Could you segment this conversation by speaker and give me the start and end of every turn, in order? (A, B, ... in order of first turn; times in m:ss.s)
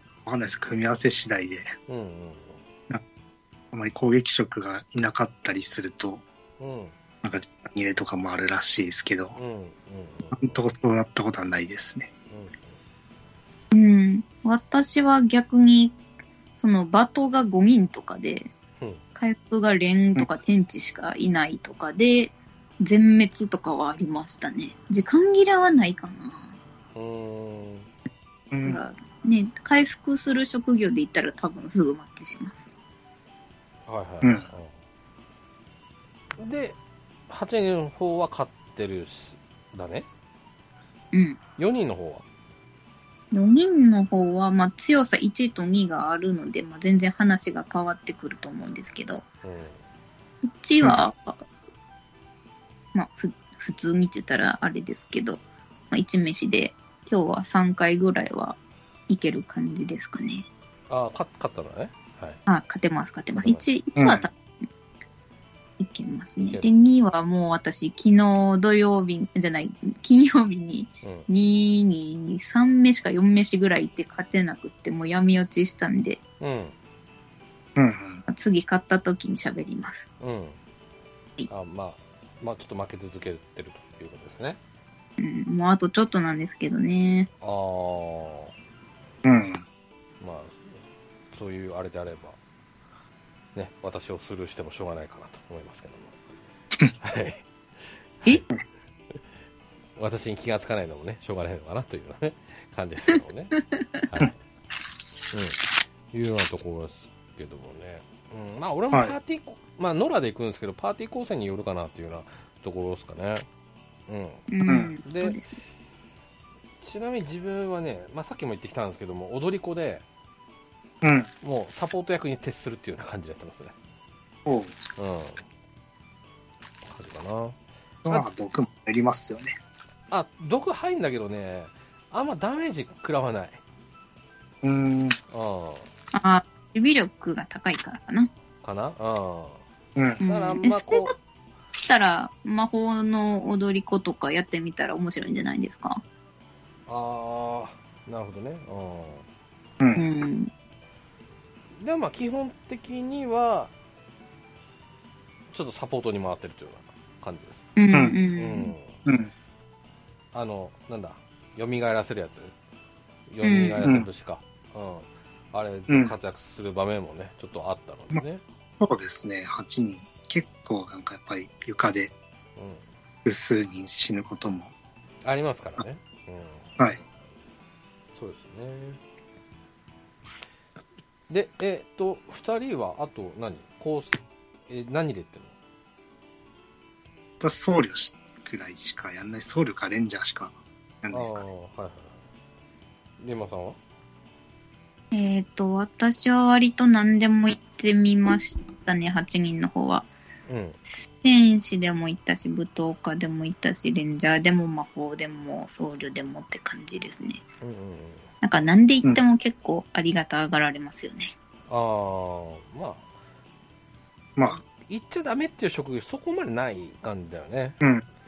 0:00.3-0:01.7 A
0:01.9-0:02.6 B
0:03.7-0:06.2 A
0:06.6-0:06.9 B
0:07.2-0:09.4 A
0:09.4-0:10.5 B
0:10.3-0:12.1 A
0:12.3-0:12.7 B
0:13.7-0:16.0 C
0:16.6-0:18.5 C
0:19.2-0:26.5 C
0:27.0-0:27.9 B
0:28.5-0:28.8 A
0:28.6-0:32.6 C
0:33.9-0:34.7 B
0:36.4-0:36.8 B
0:37.3-0:40.1 B
0:41.1-0:41.4 C
0:41.6-0:42.2 B
0:43.3-0:49.2 C
0:49.4-0:49.8 B
0:50.4-0:51.4 C
0:52.9-0:58.6 C
0:59.1-1:00.5 C
1:00.9-1:02.4 B
1:02.5-1:04.3 C
1:04.0-1:04.3 A
1:05.8-1:16.2 C
1:06.4-1:06.7 B
1:11.0-1:11.3 B
1:16.4-1:16.7 B
1:17.8-1:18.2 A
1:18.3-1:20.1 C
1:20.2-1:20.6 B
1:21.5-1:24.6 B
1:25.2-1:27.3 C
1:27.4-1:28.5 B
1:29.2-1:29.6 A
1:30.2-1:30.8 B
1:31.3-1:32.4 B
1:33.6-1:36.2 B
1:37.0-1:37.4 B
1:38.2-1:38.5 B
1:40.0-1:44.3 B
1:43.6-1:44.0 C
1:45.3-1:53.5 B
1:54.1-1:54.5 B
1:54.5-1:55.6 C
1:55.0-1:55.4 B
1:56.8-2:00.0 B
2:01.0-2:01.3 A
2:01.4-2:03.7 B
2:04.5-2:04.8 A
2:05.0-2:05.4 B
2:06.9-2:07.6 B
2:08.0-2:09.6 A
2:10.1-2:13.6 B
2:14.6-2:15.2 A
2:15.3-2:15.9 B
2:16.1-2:18.3 C
2:18.6-2:19.6 B
2:20.0-2:20.2 A
2:20.2-2:21.1 B
2:20.2-2:21.2 C
2:21.8-2:26.0 C
2:26.9-2:29.2 B
2:29.8-2:30.0 A
2:30.0-2:30.5 C
2:31.8-2:33.7 B
2:35.5-2:37.7 B
2:37.8-2:38.7 C
2:38.4-2:39.0 B
2:39.1-2:39.3 A
2:40.3-2:42.5 B
2:43.3-2:48.4 B
2:43.4-2:43.8 C
2:45.9-2:46.1 A
2:48.8-2:52.1 A
2:52.6-2:52.8 B
2:53.2-2:54.7 A
2:55.2-2:56.7 B
2:58.1-2:59.0 B
3:01.3-3:05.5 B
3:07.4-3:11.4 A
3:11.1-3:12.2 B
3:13.2-3:13.8 B
3:15.1-3:20.1 C
3:20.5-3:20.8 B
3:21.2-3:27.4 C
3:27.6-3:28.3 B
3:28.4-3:31.4 C
3:31.7-3:33.0 B
3:34.4-3:37.8 B